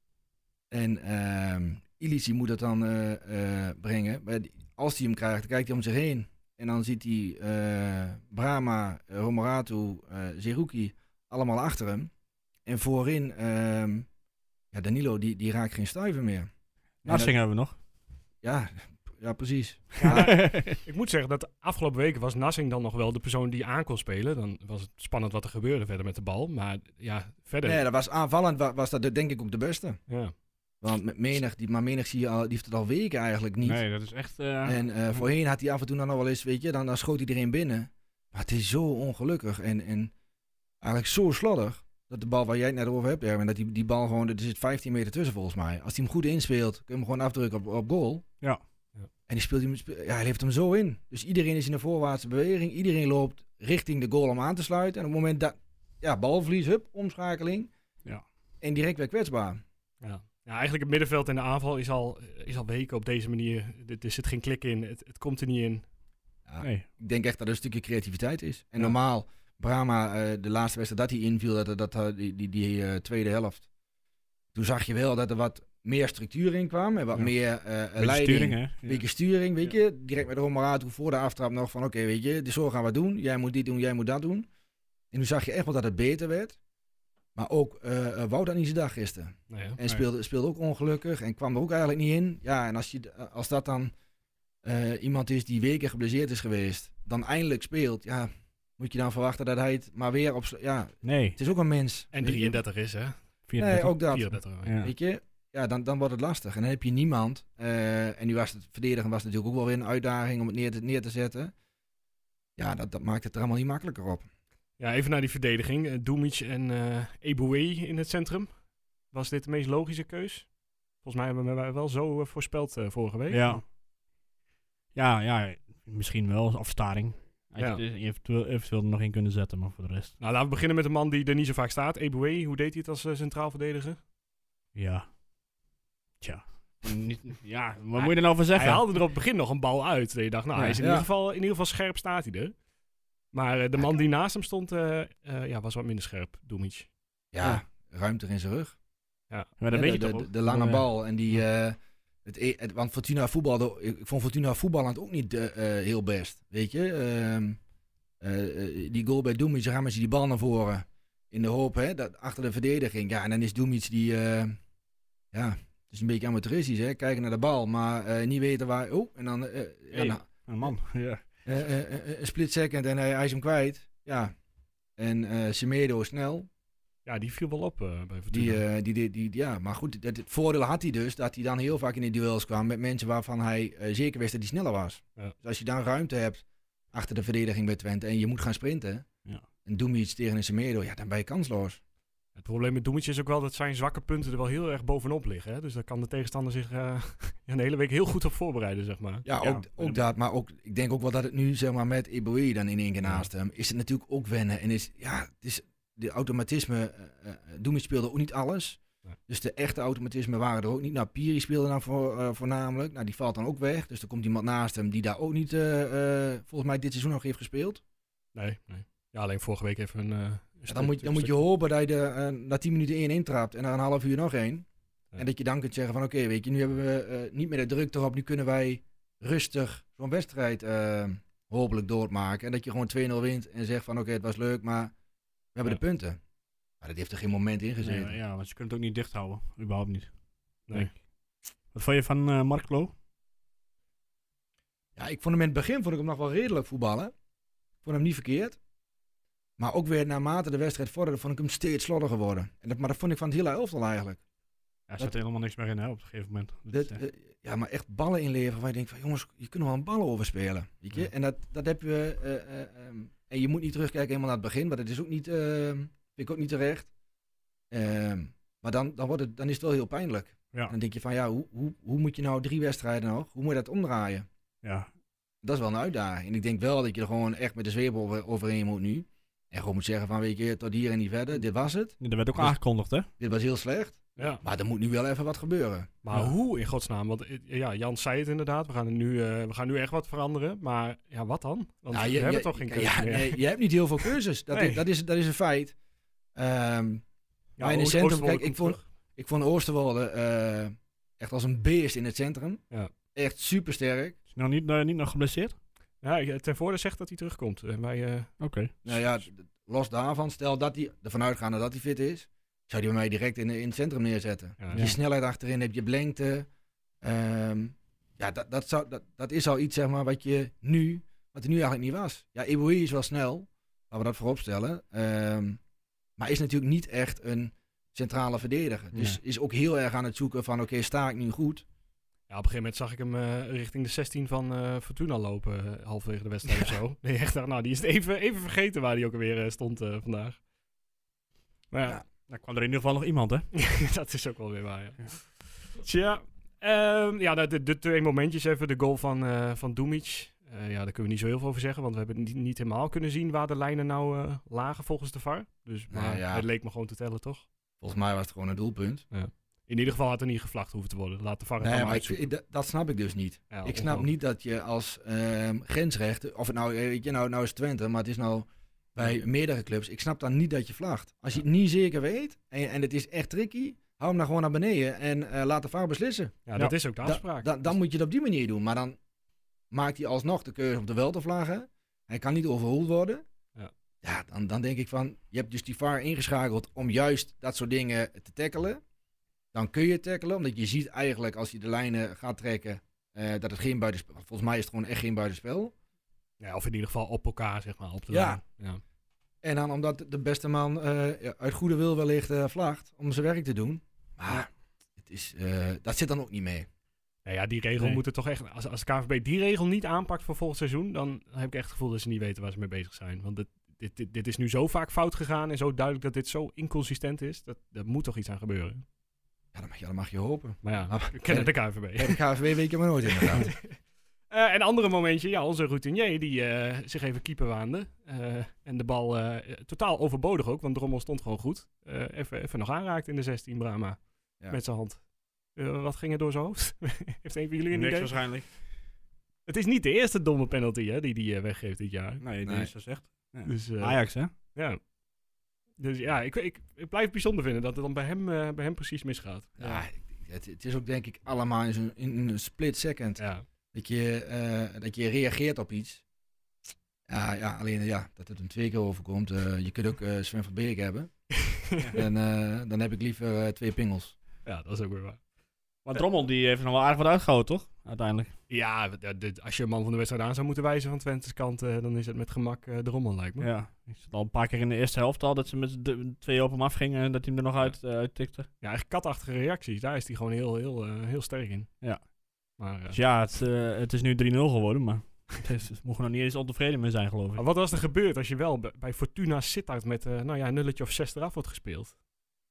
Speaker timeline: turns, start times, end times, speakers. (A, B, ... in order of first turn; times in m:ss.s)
0:00.7-0:12.1 A
0:12.6-0:14.1 A
0:14.7-0:16.5 A
0:17.0-0:17.7 B
0:17.0-0:17.3 A
0:18.4-0:20.3 A
0:20.0-0:27.8 C
0:20.1-0:20.8 B
0:27.6-0:30.0 A
0:30.1-0:30.3 C
0:30.8-0:33.8 A
0:33.6-0:34.8 B
0:34.6-0:40.1 A
0:40.8-0:48.2 A
0:49.3-0:57.7 A
0:58.6-0:59.6 A
1:00.0-1:05.9 C
1:06.5-1:13.6 A
1:06.6-1:06.8 B
1:14.5-1:24.5 A
1:18.0-1:19.0 B
1:25.1-1:26.6 A
1:27.3-1:33.9 A
1:29.5-1:29.8 C
1:34.6-1:42.6 A
1:41.0-1:41.4 B
1:42.1-1:43.2 C
1:43.5-1:44.9 B
1:43.6-1:51.5 A
1:44.1-1:44.7 C
1:52.6-1:54.3 A
1:54.8-1:58.6 C
1:59.1-2:00.5 C
2:01.0-2:03.6 C
2:03.3-2:03.6 B
2:04.9-2:10.1 B
2:10.2-2:14.0 C
2:14.7-2:15.0 B
2:16.2-2:18.9 B
2:17.9-2:22.5 C
2:20.8-2:21.1 A
2:23.3-2:26.9 C
2:27.3-2:28.8 A
2:29.3-2:29.6 C
2:29.6-2:30.8 B
2:29.7-2:37.6 A
2:38.2-2:44.6 A
2:45.3-2:50.7 A
2:49.9-2:51.2 B
2:51.4-2:54.3 A
2:55.0-2:56.5 A
2:57.0-2:58.6 C
2:58.3-3:09.0 A
3:09.6-3:11.8 A
3:12.4-3:19.2 C
3:19.2-3:37.8 A
3:19.4-3:20.0 B
3:38.3-3:41.4 C
3:40.7-3:44.6 A
3:45.2-3:54.9 A
3:55.5-3:56.2 A
3:56.8-3:58.1 A
3:57.8-4:00.1 B
4:01.7-4:02.9 B
4:05.0-4:07.1 A
4:07.8-4:08.6 A
4:09.6-4:14.2 A
4:14.9-4:17.0 B
4:16.7-4:26.9 A
4:27.7-4:34.3 A
4:34.6-4:34.9 B
4:35.4-4:42.6 A
4:42.0-4:43.1 B
4:43.2-4:45.9 A
4:46.0-4:53.4 C
4:51.9-4:55.7 A
4:54.5-4:54.8 C
4:56.4-4:57.0 A
4:57.6-4:58.8 C
4:57.6-5:02.6 A
5:03.1-5:04.2 A
5:04.3-5:05.5 B
5:06.0-5:08.4 C
5:08.4-5:08.7 B
5:08.8-5:16.5 A
5:14.6-5:14.9 C
5:17.0-5:25.6 A
5:26.2-5:31.6 A
5:32.3-5:40.4 C
5:41.7-5:42.0 C
5:42.3-5:43.5 B
5:43.5-5:57.5 C
5:55.9-5:56.4 A
5:57.8-5:59.0 A
5:59.1-6:02.2 C
6:01.6-6:16.4 A
6:03.5-6:04.1 C
6:16.5-6:17.7 C
6:17.0-6:19.0 A
6:19.7-6:23.2 A
6:24.0-6:28.8 A
6:29.5-6:35.7 A
6:36.4-6:38.8 C
6:38.1-6:38.4 A
6:39.4-6:46.7 A
6:47.2-6:58.8 C
6:59.5-7:03.5 A
7:00.6-7:02.2 C
7:03.3-7:03.7 C
7:04.3-7:15.0 C
7:15.5-7:18.2 C
7:17.7-7:18.5 B
7:19.5-7:22.2 C
7:22.2-7:24.3 B
7:22.4-7:22.7 A
7:23.4-7:24.8 C
7:25.8-7:29.8 C
7:29.6-7:33.2 A
7:33.2-7:33.4 C
7:33.7-7:36.0 A
7:37.1-7:41.1 A
7:41.5-7:41.9 C
7:41.9-7:44.1 A
7:44.4-7:45.2 C
7:45.9-7:48.3 B
7:48.5-7:53.5 C
7:53.4-7:58.5 B
7:58.6-8:01.7 C
8:02.6-8:03.0 C
8:02.9-8:07.4 B
8:07.4-8:12.0 C